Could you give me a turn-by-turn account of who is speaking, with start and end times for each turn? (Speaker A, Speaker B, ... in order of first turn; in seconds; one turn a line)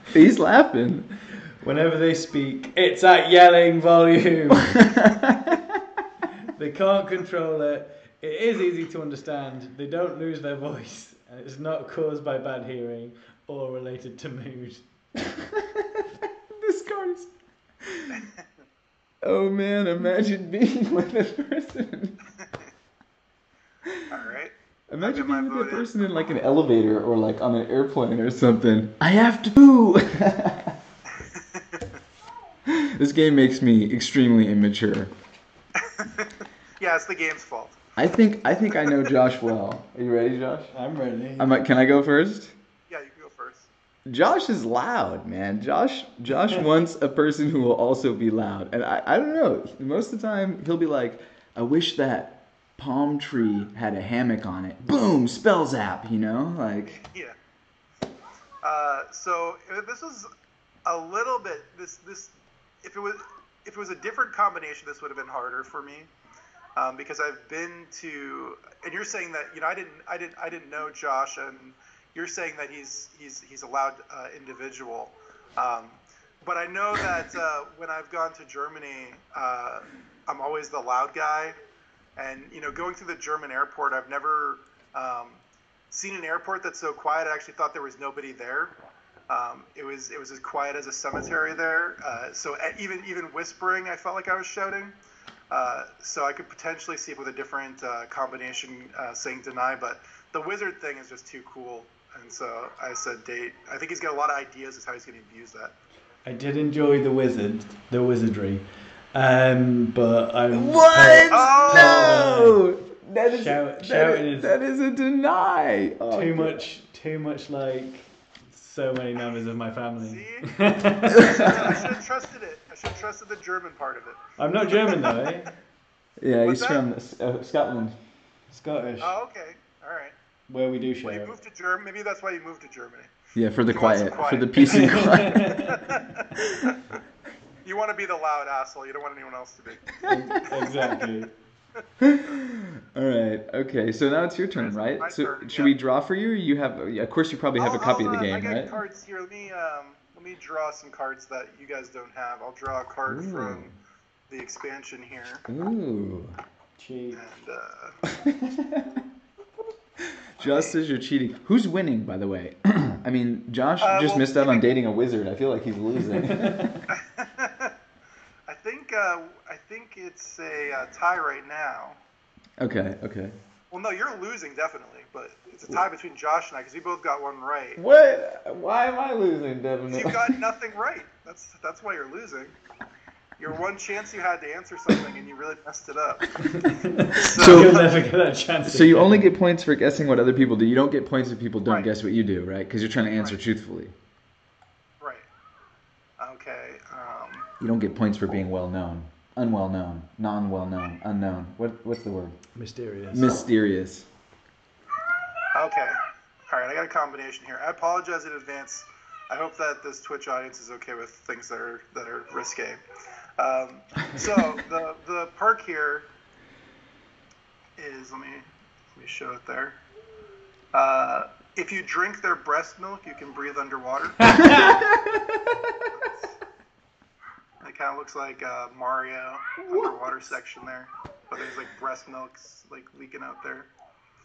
Speaker A: 0.1-1.1
Speaker B: 1.6-4.8
Speaker A: 4.8-5.6
Speaker B: 6.5-14.9
Speaker A: 15.5-17.3
Speaker A: 17.8-18.1
Speaker C: 18.1-18.5
Speaker A: 19.2-22.2
Speaker C: 24.1-25.9
Speaker A: 24.9-30.8
Speaker C: 31.2-31.9
Speaker A: 32.7-35.1
Speaker C: 35.8-37.8
Speaker A: 38.0-40.7
Speaker C: 38.6-39.1
Speaker B: 40.7-41.5
Speaker A: 41.4-42.5
Speaker C: 42.9-43.7
Speaker A: 44.1-57.0
Speaker C: 56.9-57.4
Speaker C: 58.6-60.3
Speaker C: 60.9-66.1
Speaker C: 66.8-81.6
Speaker C: 82.2-88.8
Speaker C: 89.3-95.0
Speaker C: 95.5-105.8
Speaker B: 106.2-112.6
Speaker A: 110.5-116.6
Speaker C: 111.3-112.2
Speaker B: 113.3-114.5
Speaker B: 116.1-121.8
Speaker C: 120.0-120.5
Speaker C: 121.1-125.4
Speaker A: 121.2-121.6
Speaker B: 124.4-125.5
Speaker A: 126.2-128.0
Speaker C: 126.5-126.8
Speaker B: 128.5-129.1
Speaker C: 129.0-130.1
Speaker B: 130.5-131.3
Speaker C: 131.1-133.1
Speaker A: 133.3-135.6
Speaker C: 133.7-136.8
Speaker B: 134.6-135.8
Speaker C: 137.6-141.0
Speaker B: 140.1-141.3
Speaker A: 142.0-148.8
Speaker C: 144.6-145.8
Speaker C: 147.6-153.7
Speaker A: 153.1-153.7
Speaker C: 154.3-155.4
Speaker A: 155.5-156.3
Speaker B: 156.8-157.2
Speaker C: 157.1-158.0
Speaker A: 158.1-159.1
Speaker A: 160.0-166.8
Speaker C: 160.4-160.8
Speaker C: 163.8-164.7
Speaker B: 166.2-166.6
Speaker C: 166.9-167.7
Speaker C: 168.5-172.0
Speaker A: 172.6-173.3
Speaker C: 173.7-177.8
Speaker A: 177.8-180.3
Speaker C: 179.9-182.6
Speaker C: 183.4-186.3
Speaker B: 186.6-189.2
Speaker C: 187.2-187.9
Speaker A: 187.4-187.7
Speaker A: 188.7-193.9
Speaker C: 195.0-195.3
Speaker C: 196.2-197.5
Speaker A: 197.6-202.4
Speaker B: 202.6-203.3
Speaker A: 203.1-204.1
Speaker C: 205.6-206.0
Speaker C: 206.5-212.8
Speaker C: 213.4-216.1
Speaker C: 217.8-218.4
Speaker C: 219.0-219.8
Speaker C: 220.7-224.7
Speaker A: 224.5-225.5
Speaker C: 227.6-233.7
Speaker A: 229.7-230.0